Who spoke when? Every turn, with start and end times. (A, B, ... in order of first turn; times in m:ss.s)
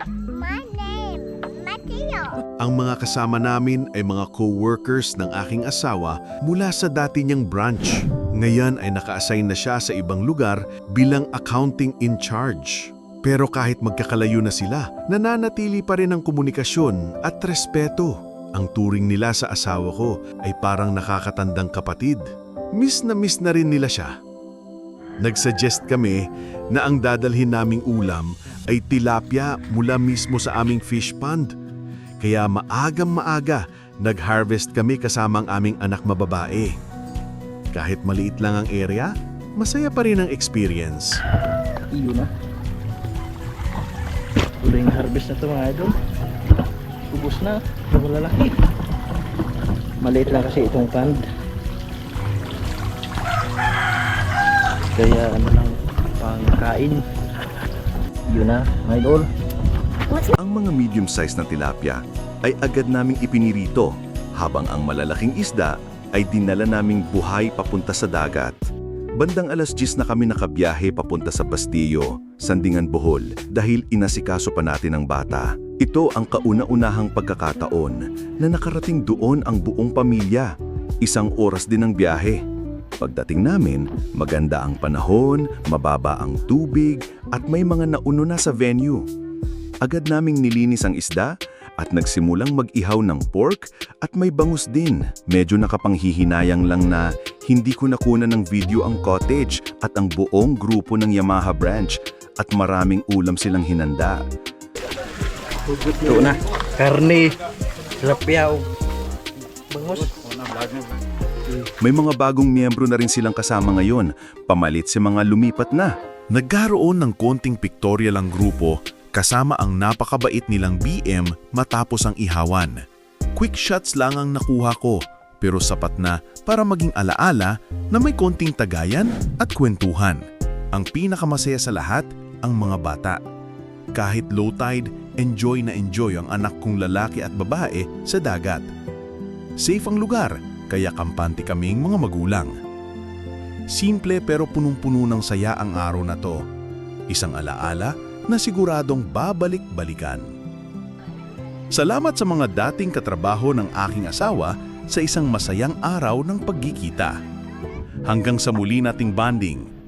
0:00.3-0:02.4 A
0:02.6-0:24.2 B
0:25.2-0:31.5 B
0:32.2-0:36.8 B
0:37.7-0:41.2 B
0:41.9-0:42.3 C
0:44.6-0:45.9 C
0:47.1-0:48.6 C
0:50.0-0:51.2 C
0:55.0-0:57.0 C
0:58.3-0:59.3 C
1:00.3-1:08.6 D
1:09.2-1:20.5 D
1:21.0-1:22.4 D
1:23.0-1:29.0 D
1:29.8-1:44.2 D
1:45.9-1:47.4 C
1:48.0-1:48.7 C
1:49.7-1:50.1 C
1:51.8-1:55.9 D
1:56.3-2:02.8 B
2:03.4-2:13.2 B
2:13.9-2:18.7 B
2:19.6-2:22.6 B
2:23.7-2:26.4 B
2:27.1-2:30.3 B
2:31.7-2:37.2 B
2:38.1-2:39.7 B